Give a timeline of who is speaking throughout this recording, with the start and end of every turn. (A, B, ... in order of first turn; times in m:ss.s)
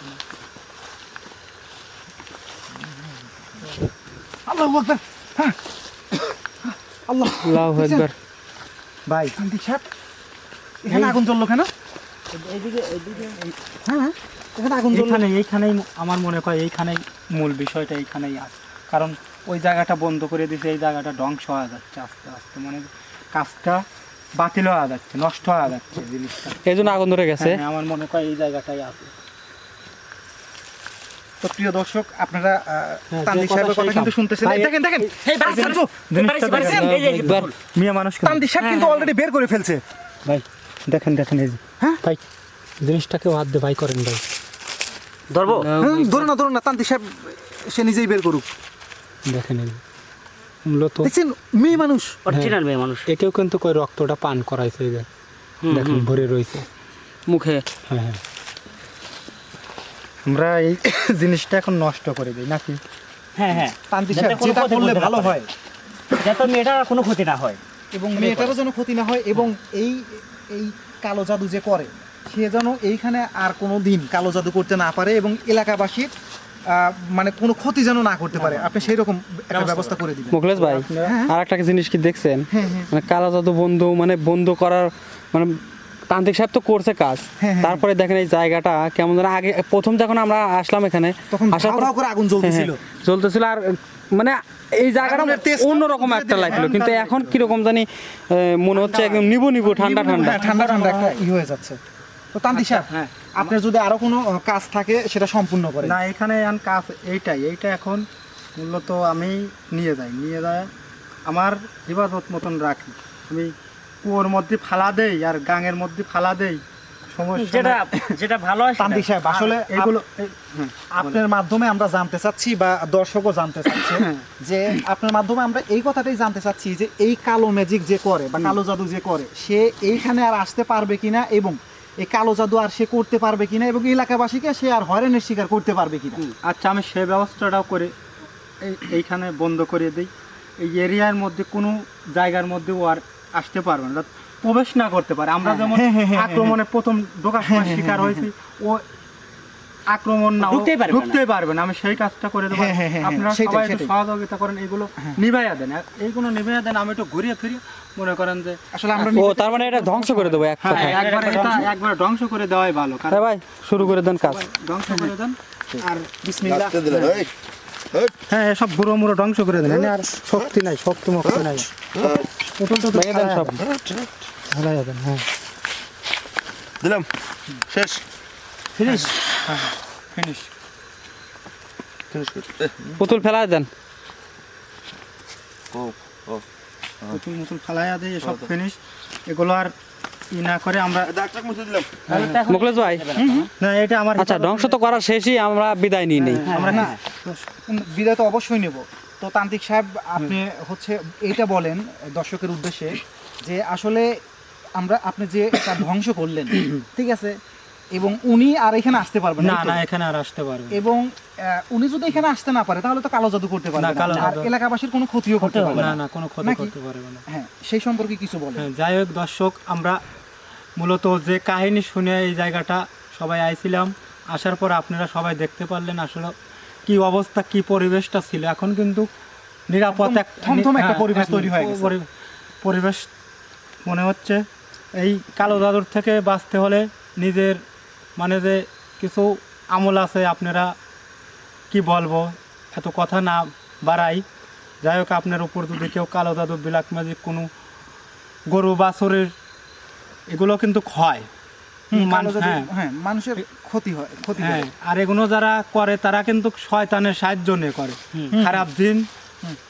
0:04.4-0:05.6 A
0:06.6-0:08.1 A
0:07.4-0:08.1 B
0:09.1-0:09.3 C
0:09.4-0:09.8 A
0:10.8-0:11.7 A
0:10.9-0:11.2 C
0:12.3-0:13.4 D
0:13.8-0:15.2 A
0:14.9-0:29.1 C
0:26.6-0:27.6 B
0:31.4-0:35.9 A
0:33.1-0:38.4 C
0:35.2-0:37.5 D
0:36.5-0:36.9 A
0:36.7-0:37.5 B
0:38.2-0:39.8 A
0:38.6-0:39.1 D
0:40.2-0:42.2 C
0:42.8-0:44.2 C
0:45.3-0:45.7 D
0:45.5-0:46.3 B
0:45.8-0:48.4 A
0:49.2-0:49.8 C
0:50.6-0:51.1 C
0:51.0-0:52.2 A
0:52.2-0:53.1 D
0:52.3-0:52.6 C
0:53.1-0:55.1 C
0:55.6-0:56.2 D
0:55.7-0:56.6 C
0:57.3-0:57.6 B
0:57.9-0:58.2 C
1:00.2-1:02.8 C
1:03.4-1:05.3 D
1:03.9-1:05.5 A
1:06.2-1:07.6 D
1:07.9-1:16.1 A
1:08.1-1:08.6 D
1:16.7-1:20.4 A
1:18.3-1:18.9 D
1:19.5-1:20.0 D
1:20.3-1:40.4 B
1:20.5-1:21.2 C
1:21.0-1:21.3 A
1:22.5-1:22.9 A
1:27.4-1:27.8 A
1:31.3-1:32.8 A
1:35.0-1:36.8 A
1:36.4-1:37.5 C
1:38.8-1:39.2 C
1:39.6-1:41.8 A
1:40.2-1:41.2 C
1:40.4-1:41.1 D
1:42.3-1:46.0 A
1:42.5-1:43.5 C
1:45.8-1:50.7 C
1:51.2-1:56.6 C
1:57.1-1:58.0 C
1:57.4-1:59.1 D
1:58.8-2:00.0 A
1:59.2-2:01.2 C
2:00.9-2:16.2 A
2:03.8-2:04.2 C
2:16.4-2:17.9 C
2:18.6-2:28.8 C
2:25.4-2:25.8 D
2:25.7-2:26.6 A
2:27.4-2:28.3 A
2:29.9-2:43.2 C
2:30.4-2:31.2 D
2:32.5-2:33.9 A
2:38.7-2:40.1 A
2:39.1-2:41.0 B
2:40.7-2:41.7 D
2:43.1-2:44.4 B
2:43.8-2:46.1 C
2:45.8-2:46.8 A
2:46.4-2:47.3 E
2:46.8-2:47.2 C
2:48.3-2:53.6 C
2:49.6-2:50.0 E
2:51.2-2:52.3 E
2:52.9-2:53.6 B
2:53.6-2:54.1 E
2:54.5-2:55.2 C
2:56.8-2:57.1 E
2:57.7-2:58.0 E
2:58.7-2:59.1 E
2:58.8-3:00.5 C
3:02.1-3:03.0 E
3:03.0-3:03.7 B
3:05.7-3:06.4 E
3:07.1-3:09.7 C
3:08.2-3:08.5 E
3:10.3-3:11.1 C
3:11.0-3:12.0 E
3:12.1-3:13.5 D
3:12.1-3:12.4 C
3:12.4-3:13.0 B
3:13.2-3:13.5 A
3:13.6-3:14.9 C
3:14.2-3:16.4 B
3:16.2-3:17.5 C
3:16.3-3:17.0 A
3:16.4-3:17.0 D
3:17.7-3:24.2 A
3:24.8-3:27.4 A
3:27.9-3:29.8 A
3:29.4-3:30.8 C
3:30.7-3:36.7 A
3:33.8-3:34.5 C
3:34.0-3:34.3 D
3:35.4-3:36.0 D
3:35.7-3:37.2 C
3:37.3-3:38.7 A
3:38.6-3:40.0 C
3:40.8-3:46.3 C
3:46.8-3:49.1 C
3:49.7-3:52.1 C
3:49.9-3:51.9 A
3:52.6-3:53.1 C
3:53.8-3:57.6 C
3:58.2-4:00.7 C
4:01.7-4:04.2 C
4:04.8-4:07.5 C
4:08.5-4:09.3 C
4:10.3-4:11.3 C
4:11.9-4:14.6 A
4:11.9-4:12.7 C
4:14.4-4:19.1 C
4:18.3-4:18.6 A